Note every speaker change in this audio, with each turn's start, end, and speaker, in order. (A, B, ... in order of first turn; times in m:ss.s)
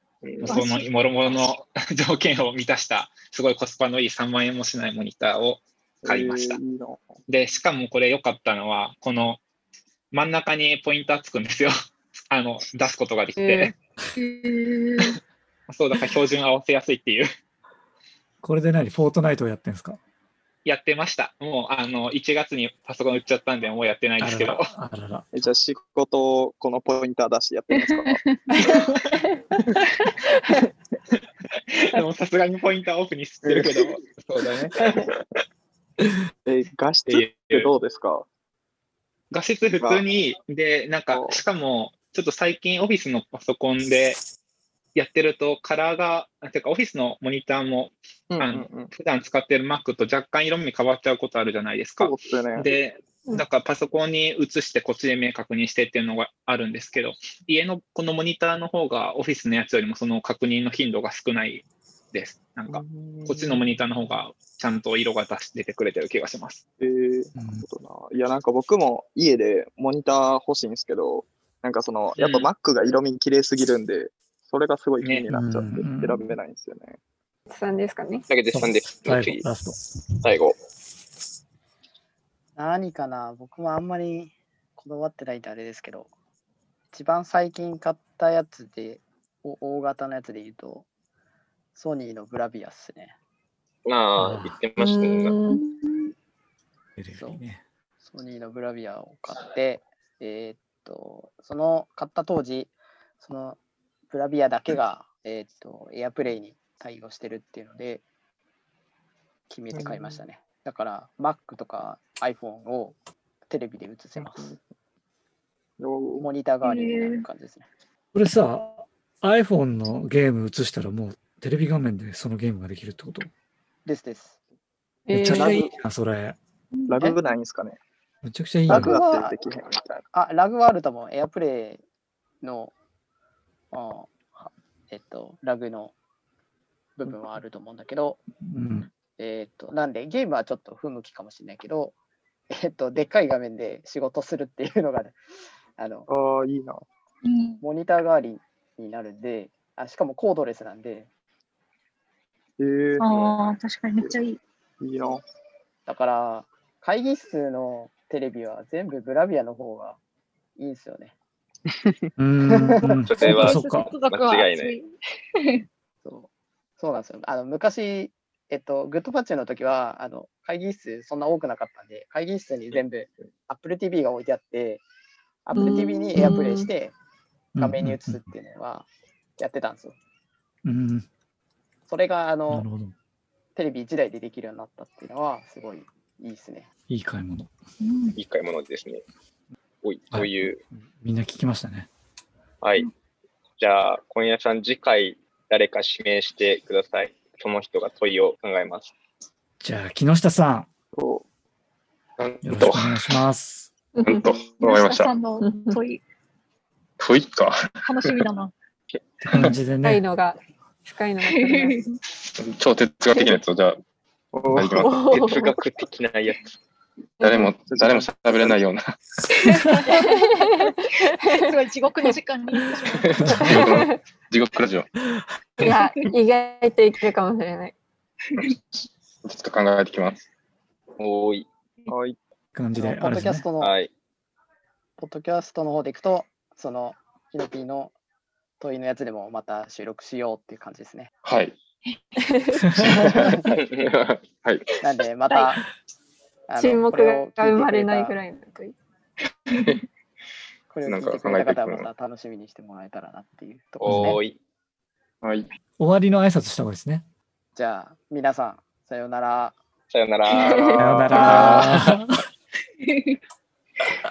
0:00.2-0:00.6 A
0:00.4-0:06.6 B
0:00.4-0:00.8 C
0:06.0-0:07.2 A
0:07.3-0:09.4 B
0:10.1-0:11.7 B
0:12.3-0:13.7 B
0:13.4-0:13.7 D
0:14.1-0:15.2 C
0:15.7-0:17.3 B
0:18.4-0:20.0 E
0:20.6-0:24.7 B
0:24.2-0:25.5 E
0:25.3-0:28.2 A
0:27.7-0:28.4 C
0:28.6-0:29.7 B
0:31.7-0:35.1 B
0:33.4-0:33.8 A
0:34.8-0:35.2 A
0:36.4-0:38.2 A
0:37.1-0:37.7 B
0:39.3-0:44.2 B
0:41.1-0:41.4 A
0:44.9-1:06.6 B
0:48.3-0:48.9 A
0:52.0-0:52.7 A
1:02.7-1:03.6 A
1:06.8-1:17.0 A
1:07.4-1:07.6 E
1:12.2-1:12.5 B
1:15.3-1:16.4 E
1:17.5-1:18.3 D
1:18.3-1:19.4 F
1:18.5-1:19.8 E
1:20.2-1:20.6 F
1:22.6-1:26.1 G
1:26.9-1:30.8 G
1:31.7-1:33.1 G
1:33.8-1:35.4 F
1:34.2-1:34.5 E
1:34.8-1:35.6 D
1:35.5-1:36.1 C
1:37.0-1:37.6 E
1:37.1-1:37.4 G
1:38.0-1:43.6 G
1:44.1-1:48.0 G
1:49.5-1:54.5 G
1:49.7-1:50.2 A
1:54.2-1:54.6 A
1:55.8-1:56.3 A
1:56.2-1:57.6 G
1:56.6-1:57.2 C
1:58.1-2:03.3 E
2:03.8-2:04.4 G
2:05.1-2:05.5 D
2:05.1-2:06.4 E
2:05.2-2:05.7 A
2:06.7-2:07.3 C
2:06.9-2:07.8 A
2:08.2-2:09.0 E
2:08.7-2:10.0 A
2:08.7-2:09.4 G
2:10.1-2:11.8 G
2:12.4-2:12.7 G
2:13.7-2:15.9 G
2:17.0-2:18.2 G
2:18.4-2:18.9 E
2:19.2-2:21.9 G
2:22.5-2:25.2 G
2:25.8-2:26.1 G
2:26.1-2:26.8 A
2:27.2-2:27.6 C
2:27.6-2:31.1 G
2:32.6-2:33.3 A
2:33.0-2:34.4 C
2:34.8-2:35.2 A
2:35.9-2:40.0 G
2:40.6-2:41.1 G
2:41.6-2:42.1 A
2:42.2-2:44.0 E
2:42.4-2:43.0 G
2:42.8-2:45.6 C
2:43.0-2:44.7 F
2:46.0-2:54.8 G
2:55.4-2:56.9 G
2:55.5-2:56.7 D
2:57.5-2:58.2 E
2:57.6-2:58.9 G
2:59.4-2:59.9 G
3:00.6-3:01.1 E
3:01.9-3:02.7 G
3:02.5-3:02.9 E
3:03.6-3:06.7 G
3:06.9-3:07.5 E
3:07.8-3:08.2 C
3:08.1-3:09.0 F
3:09.8-3:10.6 F
3:10.1-3:11.9 E
3:12.6-3:12.9 F
3:13.6-3:18.9 F
3:19.6-3:20.7 E
3:20.9-3:21.2 A
3:22.2-3:23.0 H
3:22.4-3:23.7 E
3:24.0-3:24.3 D
3:24.0-3:25.2 H
3:24.5-3:26.0 C
3:25.4-3:25.8 D
3:27.0-3:28.1 H
3:27.8-3:28.5 C
3:29.3-3:30.0 E
3:29.3-3:29.5 H
3:29.8-3:31.8 D
3:31.2-3:32.0 C
3:32.4-3:33.8 H
3:34.3-3:35.3 A
3:34.5-3:35.2 H
3:34.8-3:35.4 D
3:35.3-3:36.4 F
3:37.2-3:38.9 H
3:37.6-3:38.6 A
3:39.4-3:41.4 D
3:39.8-3:43.8 C
3:42.9-3:44.9 H
3:43.4-3:43.9 D
3:45.6-3:47.7 D
3:49.2-3:50.2 H
3:51.0-3:51.9 F
3:51.9-3:52.2 A
3:52.5-3:53.5 E
3:52.8-3:53.7 G
3:53.6-3:53.9 F
3:55.0-3:57.9 G
3:58.6-4:01.1 G
4:01.2-4:01.6 H
4:02.8-4:04.6 H
4:03.5-4:03.9 F
4:04.8-4:05.6 G
4:05.3-4:05.6 C
4:06.5-4:08.2 G
4:06.6-4:08.8 D
4:10.7-4:14.2 G
4:10.8-4:11.9 H
4:13.8-4:14.4 F
4:13.8-4:14.2 E
4:15.2-4:15.5 H
4:15.8-4:17.0 E
4:17.5-4:19.5 G
4:19.9-4:21.9 F
4:20.5-4:20.8 D
4:20.8-4:22.2 E
4:21.3-4:21.7 H
4:22.8-4:23.2 C